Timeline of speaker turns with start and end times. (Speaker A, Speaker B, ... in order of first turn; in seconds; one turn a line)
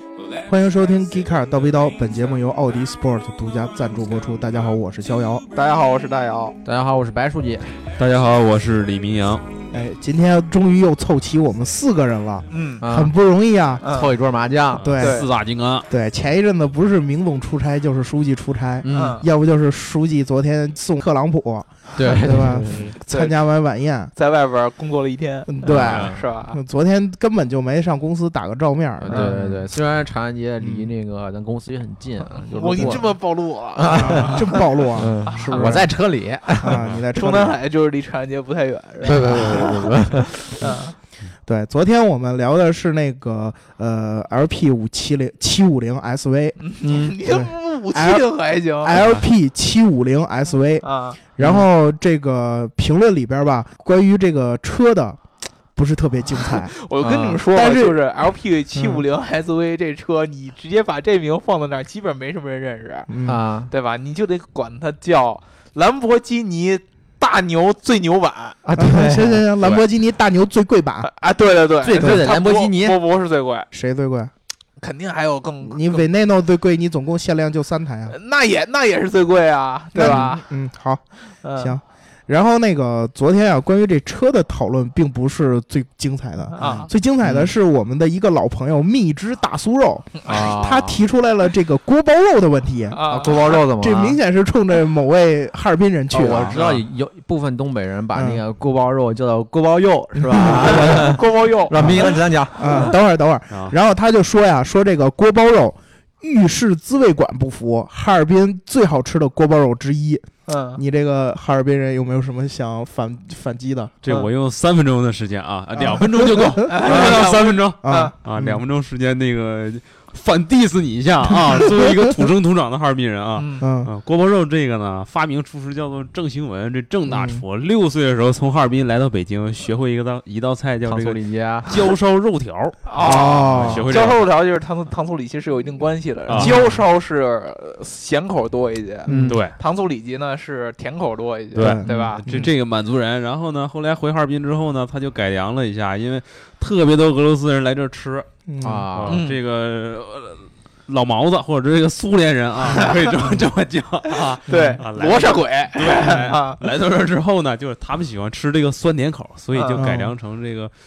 Speaker A: 0.5-5.5
Speaker B: 5.5-6.6
Speaker C: 6.6-7.8
Speaker D: 8.0-9.4
Speaker A: 9.7-13.8
Speaker B: 12.5-12.8
Speaker C: 12.8-13.2
Speaker B: 13.8-14.1
Speaker C: 13.8-15.0
Speaker D: 14.8-15.9
Speaker A: 14.8-15.2
Speaker B: 15.0-15.3
Speaker A: 15.9-24.1
Speaker C: 18.8-19.2
Speaker B: 18.9-19.3
Speaker C: 22.0-22.9
Speaker D: 22.6-22.9
Speaker B: 23.0-23.4
Speaker B: 24.1-26.6
Speaker A: 25.5-29.7
Speaker C: 25.6-26.2
Speaker C: 29.0-36.9
Speaker A: 30.6-30.9
Speaker B: 32.5-35.9
Speaker A: 33.9-35.9
Speaker A: 36.6-37.6
Speaker B: 37.1-40.9
Speaker C: 39.1-40.7
Speaker A: 39.2-39.6
Speaker A: 41.5-46.6
Speaker B: 46.6-49.0
Speaker C: 46.8-47.2
Speaker A: 47.2-55.2
Speaker D: 48.9-49.3
Speaker B: 50.8-51.2
Speaker C: 51.4-51.7
Speaker A: 55.8-56.7
Speaker B: 56.4-63.1
Speaker C: 57.0-57.4
Speaker A: 57.5-58.0
Speaker A: 58.8-59.0
Speaker A: 63.1-63.4
Speaker C: 63.2-63.7
Speaker B: 63.7-68.6
Speaker C: 68.6-69.5
Speaker A: 68.8-71.1
Speaker B: 71.0-73.7
Speaker C: 71.8-73.0
Speaker A: 73.7-74.3
Speaker B: 74.8-76.1
Speaker A: 75.6-78.2
Speaker B: 78.1-80.5
Speaker A: 80.0-81.0
Speaker C: 80.0-80.3
Speaker B: 81.4-81.8
Speaker A: 81.6-93.0
Speaker B: 86.5-86.9
Speaker C: 86.6-87.5
Speaker C: 90.2-91.0
Speaker B: 92.9-93.6
Speaker C: 93.0-94.2
Speaker A: 93.7-96.6
Speaker C: 96.1-102.9
Speaker D: 96.5-96.8
Speaker A: 98.1-98.4
Speaker A: 100.2-110.3
Speaker B: 100.4-103.0
Speaker D: 103.5-103.8
Speaker B: 110.5-110.8
Speaker A: 110.8-114.0
Speaker D: 114.0-134.3
Speaker A: 115.8-117.2
Speaker B: 116.6-118.1
Speaker A: 117.8-118.6
Speaker A: 121.5-122.1
Speaker B: 123.4-123.7
Speaker A: 123.6-123.9
Speaker A: 127.1-127.4
Speaker C: 130.8-131.8
Speaker B: 132.9-142.5
Speaker A: 133.0-133.9
Speaker D: 136.3-136.6
Speaker A: 139.1-139.4
Speaker C: 139.1-139.4
Speaker D: 139.2-139.6
Speaker D: 141.6-148.3
Speaker A: 141.6-142.5
Speaker A: 148.5-148.9
Speaker C: 148.6-149.2
Speaker D: 148.9-160.7
Speaker B: 149.1-149.4
Speaker B: 152.7-153.1
Speaker B: 154.1-156.6
Speaker A: 154.5-154.8
Speaker B: 159.5-159.9
Speaker A: 159.8-160.1